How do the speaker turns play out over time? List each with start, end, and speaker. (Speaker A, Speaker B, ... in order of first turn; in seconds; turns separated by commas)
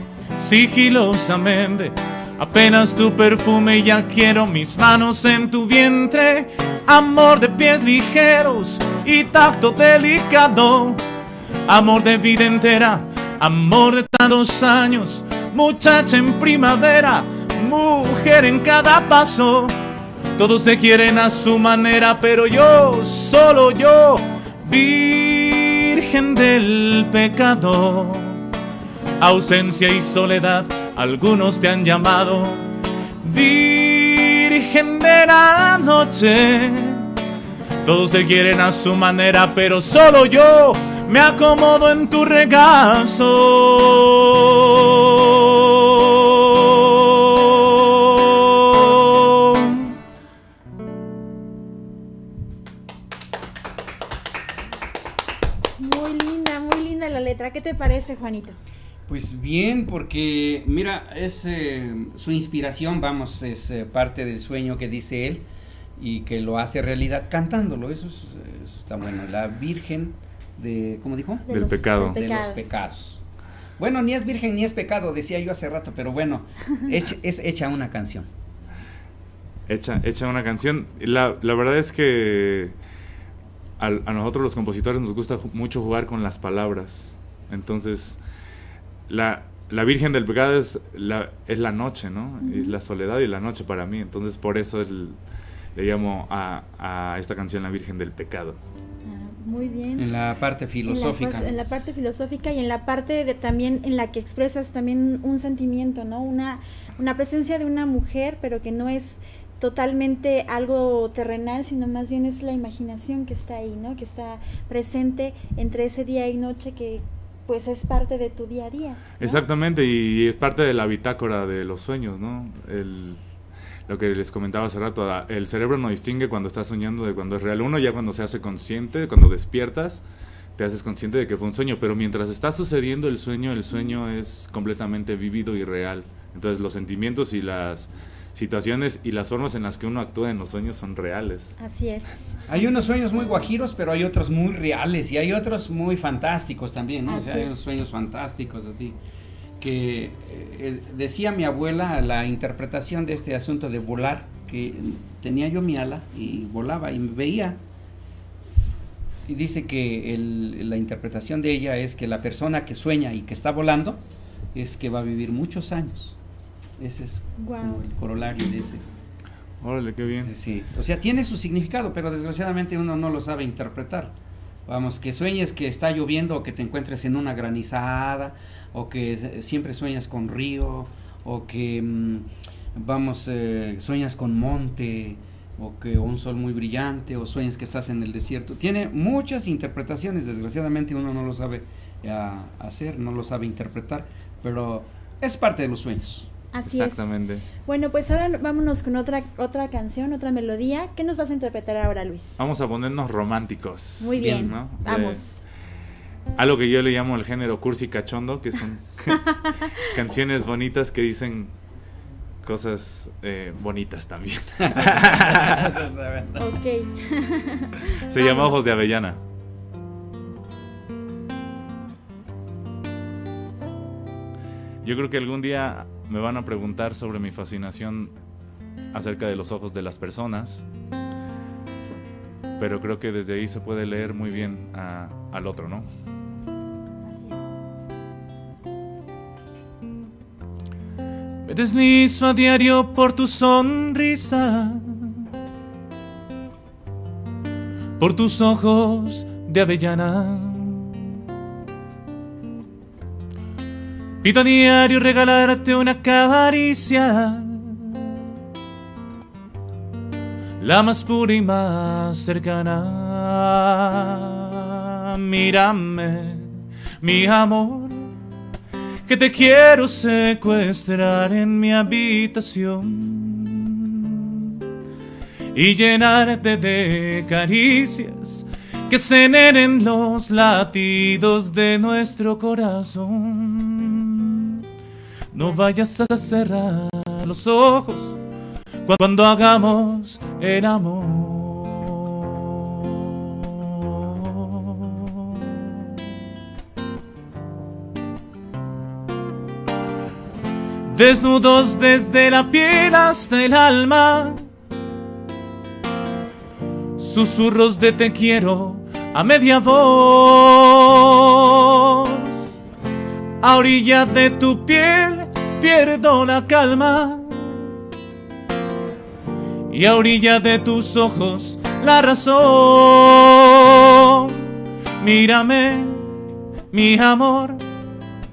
Speaker A: 0.3-11.0, Speaker A: 11.7-19.7, Speaker A: 20.4-28.4, Speaker A: 29.2-32.7, Speaker A: 33.2-37.1, Speaker A: 37.8-49.9, Speaker B: 55.8-58.6, Speaker C: 59.1-65.4, Speaker C: 66.0-73.2, Speaker B: 71.5-72.6, Speaker A: 71.5-72.2, Speaker C: 73.8-78.3, Speaker A: 79.7-82.8, Speaker A: 83.8-88.2, Speaker A: 89.1-95.2, Speaker B: 92.4-92.8, Speaker A: 95.8-98.6, Speaker B: 99.1-100.1, Speaker C: 100.0-101.6, Speaker B: 100.9-119.4, Speaker A: 119.2-123.2, Speaker A: 123.9-130.0, Speaker A: 130.6-141.5, Speaker B: 141.6-142.8, Speaker C: 142.5-149.0, Speaker B: 147.1-147.7, Speaker C: 149.6-157.6, Speaker C: 159.3-164.0, Speaker C: 164.5-166.2, Speaker C: 166.8-168.8, Speaker B: 167.4-167.8, Speaker A: 169.6-170.3, Speaker C: 170.2-174.1, Speaker C: 174.7-196.3, Speaker B: 196.5-197.1, Speaker A: 196.7-197.5, Speaker B: 197.6-202.4, Speaker A: 202.4-205.2, Speaker B: 204.0-205.4, Speaker C: 204.2-204.6, Speaker A: 206.4-209.2, Speaker B: 209.4-209.7, Speaker A: 209.9-211.5, Speaker A: 212.4-215.6, Speaker C: 214.6-216.5, Speaker B: 216.4-218.6, Speaker A: 218.1-219.2, Speaker A: 224.8-228.1, Speaker A: 228.9-230.6, Speaker A: 232.6-235.9, Speaker B: 237.1-237.4, Speaker A: 241.5-245.3, Speaker A: 248.0-251.1, Speaker A: 254.2-258.1, Speaker A: 260.6-268.1, Speaker A: 269.1-274.6, Speaker A: 275.5-284.6, Speaker A: 285.3-288.2, Speaker A: 288.9-295.4, Speaker A: 300.9-304.4, Speaker A: 307.0-312.3, Speaker A: 313.4-317.7, Speaker A: 319.7-326.1, Speaker A: 326.7-327.6